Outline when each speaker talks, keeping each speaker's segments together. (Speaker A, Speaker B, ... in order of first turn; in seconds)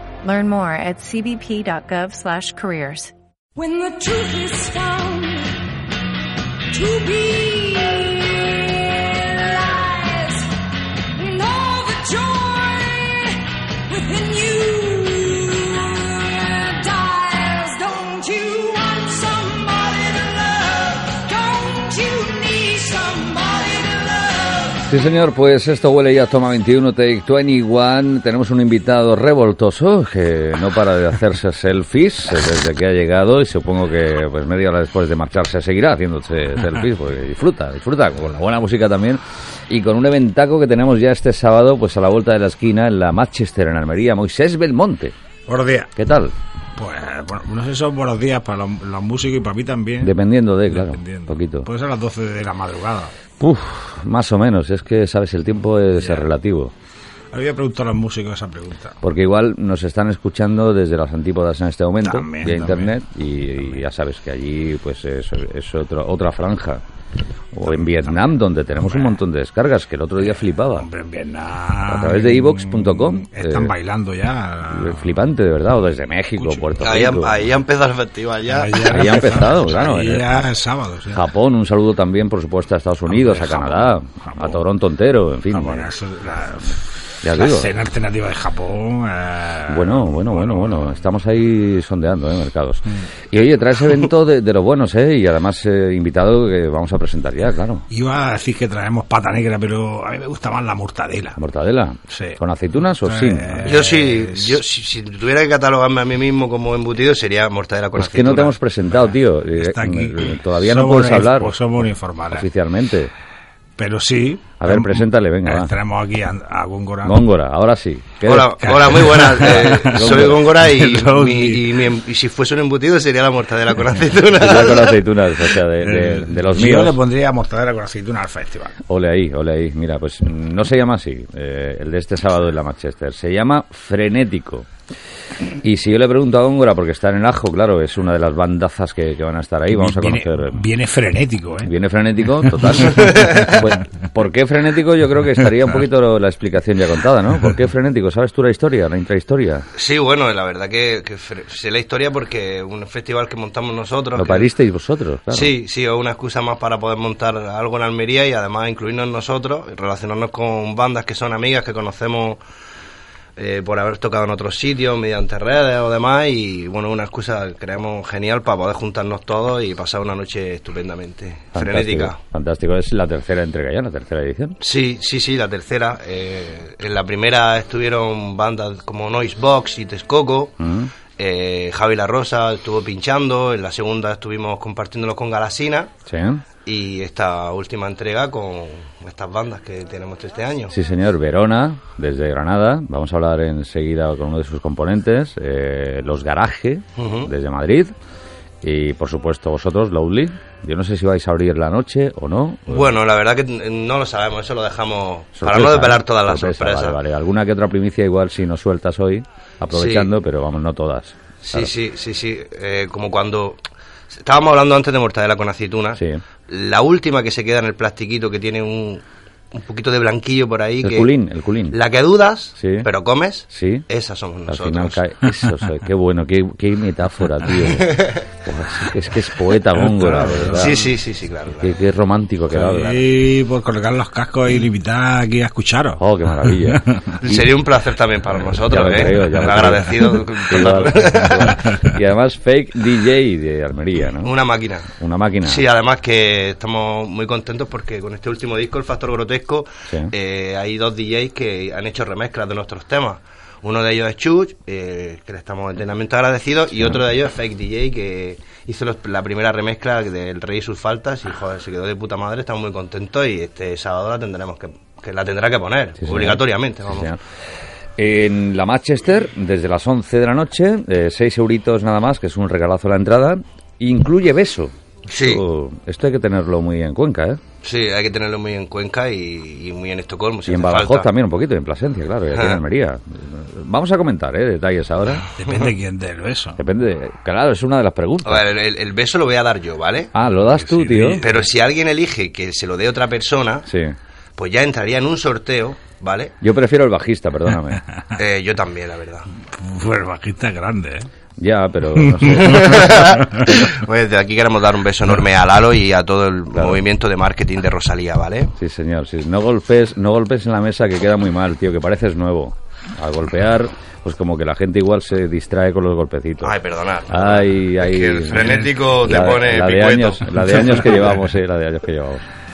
Speaker A: 0.2-3.1
Speaker B: 3.6-5.7, 6.7-10.5, 11.2-24.8
Speaker C: 24.9-45.1, 46.0-46.3, 50.0-51.7, 53.4-56.7, 59.0-66.8, 67.5-70.9, 71.9-73.7, 74.7-77.3, 78.9-80.3, 81.1-85.9, 87.2-87.7, 89.7-97.8, 101.4-103.8, 108.0-111.6, 112.3-113.1, 114.6-115.7, 117.0-118.7, 119.9-120.4, 124.3-127.0, 128.9-134.7, 135.6-140.6, 141.6-149.7, 154.2-155.5, 171.6-174.6, 180.6-180.9, 186.1-186.4, 190.7-197.9, 198.6-202.9, 205.4-211.7, 215.9-216.2, 220.8-221.8, 222.6-222.9, 223.5-223.9, 224.5-230.8, 231.6-233.0, 236.0-236.8, 238.6-244.3, 245.0-245.6, 249.9-250.1, 266.0-267.2, 268.0-277.4, 280.5-285.2, 286.6-288.4, 290.1-291.2, 293.7-294.0, 296.4-297.8, 301.4-302.9, 306.5-306.8, 308.6-316.5, 317.1-322.3
Speaker D: 45.5-45.9, 46.8-50.1, 50.7-53.1, 56.0-56.3, 57.3-59.0, 62.0-62.9, 68.8-69.2, 70.7-75.2, 76.4-76.7, 78.5-81.2, 83.1-84.6, 85.5-90.9, 97.9-101.4, 102.1-102.4, 103.0-104.6, 109.6-112.5, 113.8-117.2, 118.6-121.7, 125.8-128.8, 139.7-141.7, 142.5-143.7, 229.8-230.8, 232.5-237.2, 285.3-286.6, 290.4-291.4, 299.5-301.1, 302.0-303.4
Speaker E: 76.8-79.0, 103.7-108.6, 118.2-125.0, 143.1-143.4, 149.8-154.5, 155.3-162.4, 163.4-172.2, 174.6-180.6, 181.2-185.9, 186.7-190.8, 197.0-197.3, 202.7-207.0, 209.7-210.1, 211.4-213.6, 214.1-221.1, 221.7-225.1, 227.6-228.2, 230.5-231.8, 237.2-241.6, 244.2-244.9, 245.4-267.1, 275.1-275.4, 277.6-281.1, 282.3-282.6, 288.2-290.1, 291.2-293.7, 294.4-296.3, 298.2-299.3, 302.5-308.5, 316.4-320.9